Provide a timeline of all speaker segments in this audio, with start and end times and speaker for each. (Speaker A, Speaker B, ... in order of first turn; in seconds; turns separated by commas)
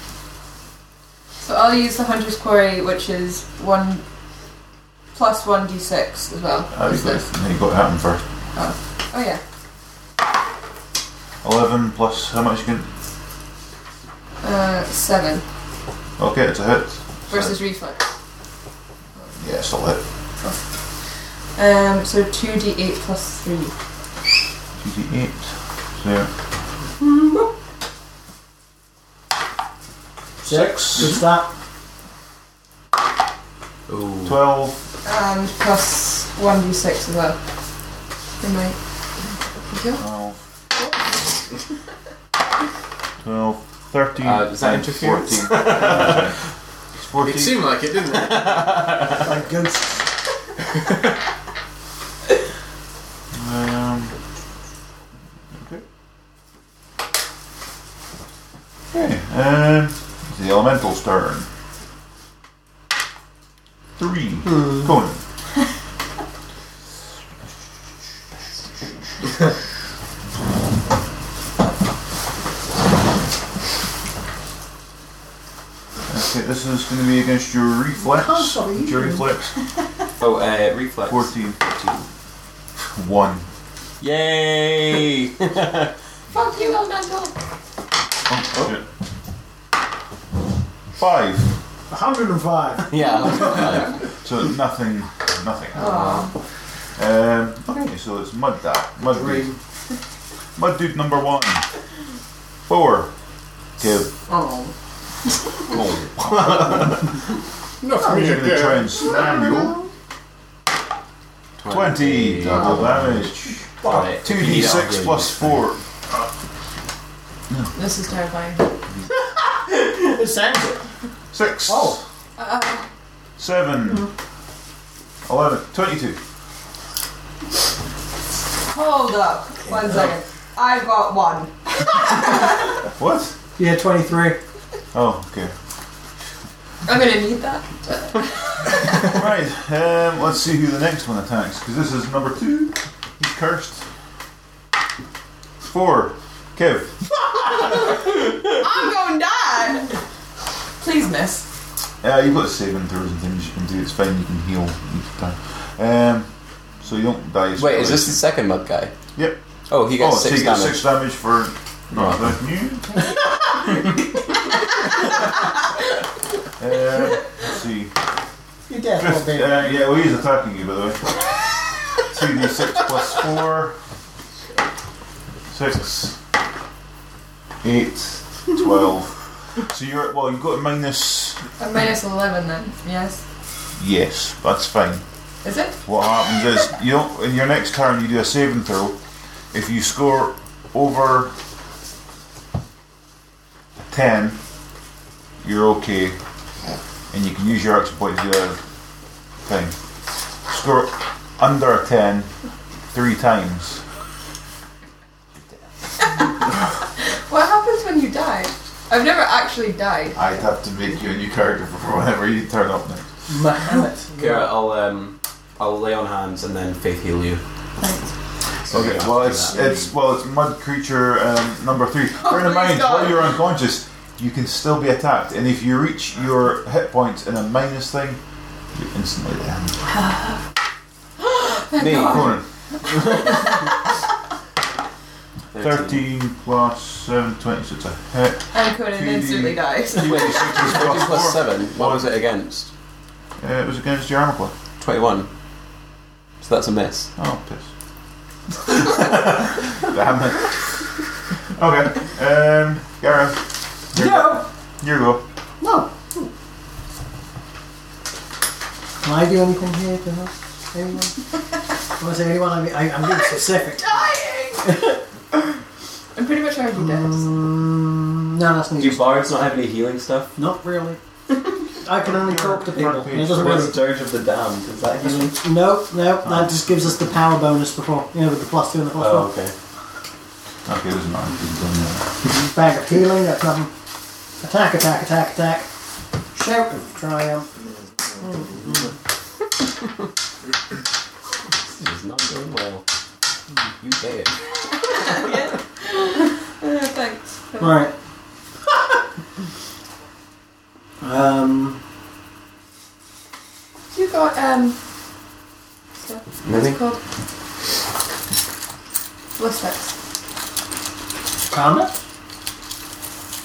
Speaker A: 1.4-4.0, Speaker A: 5.1-7.2, Speaker B: 6.7-8.2, Speaker A: 8.6-9.4, Speaker B: 11.4-12.9, Speaker A: 14.4-15.4, Speaker B: 16.2-17.6, Speaker A: 17.3-18.1, Speaker B: 19.4-20.0, Speaker A: 21.6-23.7, Speaker B: 24.8-26.3, Speaker A: 27.2-27.5, Speaker B: 30.4-31.2, Speaker C: 30.4-31.5, Speaker D: 33.9-34.4, Speaker B: 34.2-34.8, Speaker A: 35.0-37.4, Speaker A: 38.4-38.8, Speaker A: 39.7-40.0, Speaker B: 40.0-40.4, Speaker B: 43.2-46.4, Speaker D: 44.2-46.3, Speaker B: 47.0-47.7, Speaker E: 47.2-48.9, Speaker D: 48.1-49.2, Speaker C: 49.2-50.1, Speaker B: 53.3-54.2, Speaker B: 55.6-55.8, Speaker B: 58.9-61.5, Speaker B: 64.0-65.2, Speaker B: 76.1-79.5, Speaker C: 78.0-79.3, Speaker D: 80.2-82.0, Speaker B: 81.1-81.6, Speaker B: 82.9-83.5, Speaker D: 84.0-85.9, Speaker A: 86.3-87.3, Speaker B: 88.3-88.8, Speaker B: 91.0-91.5, Speaker C: 91.9-93.7, Speaker D: 92.9-94.0, Speaker B: 94.2-96.3, Speaker A: 95.8-96.3, Speaker B: 97.0-99.5, Speaker C: 99.0-99.6, Speaker B: 100.6-101.7, Speaker B: 102.7-103.1, Speaker B: 103.8-104.2, Speaker E: 104.3-104.7, Speaker B: 105.7-107.0, Speaker E: 107.8-109.5, Speaker B: 108.0-109.8, Speaker D: 111.6-115.7, Speaker B: 111.7-115.8, Speaker C: 113.8-114.1, Speaker A: 117.7-118.7, Speaker C: 119.5-120.8, Speaker B: 121.3-122.0, Speaker C: 121.7-122.0, Speaker A: 122.4-122.8, Speaker B: 123.4-124.1, Speaker B: 125.3-126.2, Speaker A: 128.7-132.7, Speaker B: 133.0-133.3, Speaker C: 133.6-134.4, Speaker B: 134.9-135.5, Speaker A: 136.9-139.1, Speaker B: 139.0-143.8, Speaker B: 145.7-147.0, Speaker A: 147.6-149.9, Speaker A: 150.8-151.4, Speaker B: 152.0-156.3, Speaker B: 156.8-158.2, Speaker D: 157.6-158.9, Speaker B: 159.2-162.9, Speaker D: 159.7-160.8, Speaker D: 161.9-162.3, Speaker B: 166.6-167.9, Speaker C: 168.7-169.9, Speaker B: 169.0-171.1, Speaker B: 172.1-173.8, Speaker B: 175.5-176.2, Speaker B: 177.6-181.4, Speaker A: 181.6-183.2, Speaker B: 183.8-185.0, Speaker A: 185.4-185.8, Speaker B: 185.8-189.0, Speaker B: 189.5-191.3, Speaker B: 193.8-194.4, Speaker B: 195.4-196.2, Speaker B: 197.1-198.6, Speaker B: 199.4-199.8, Speaker B: 200.5-202.3, Speaker B: 202.9-203.8, Speaker A: 206.0-206.3, Speaker A: 207.0-210.2, Speaker B: 210.2-213.1, Speaker C: 213.3-214.5, Speaker D: 214.2-217.4, Speaker A: 217.8-218.1, Speaker D: 218.7-219.9, Speaker B: 218.7-228.2, Speaker A: 222.2-223.3, Speaker B: 228.7-229.8, Speaker A: 231.2-232.4, Speaker D: 231.8-232.4, Speaker B: 232.1-232.4, Speaker D: 233.2-233.5, Speaker D: 235.5-236.1, Speaker B: 235.6-242.1, Speaker A: 238.5-240.5, Speaker D: 240.0-242.7, Speaker B: 243.4-244.5, Speaker D: 244.8-245.3, Speaker D: 246.4-247.1, Speaker B: 247.2-247.7, Speaker B: 248.8-250.8, Speaker B: 251.6-253.4, Speaker B: 253.9-255.2, Speaker C: 253.9-254.5, Speaker C: 255.6-256.3, Speaker C: 259.0-261.2, Speaker C: 262.0-264.1, Speaker A: 263.8-264.8, Speaker A: 266.1-267.3, Speaker C: 266.8-269.0, Speaker D: 268.8-270.3, Speaker C: 270.4-271.0, Speaker C: 271.8-273.8, Speaker B: 272.0-273.7, Speaker D: 273.1-275.4, Speaker C: 275.0-279.3, Speaker B: 276.2-276.9, Speaker D: 279.0-279.5, Speaker B: 280.7-282.4, Speaker C: 282.3-283.7, Speaker C: 284.4-285.7, Speaker C: 286.3-287.5, Speaker E: 288.1-288.5, Speaker D: 291.8-292.9, Speaker D: 293.8-294.4, Speaker A: 294.6-297.8, Speaker C: 297.6-297.9, Speaker C: 301.0-301.8, Speaker A: 303.9-304.8, Speaker A: 306.0-307.0, Speaker D: 306.4-306.8, Speaker A: 309.4-309.9, Speaker C: 311.5-311.9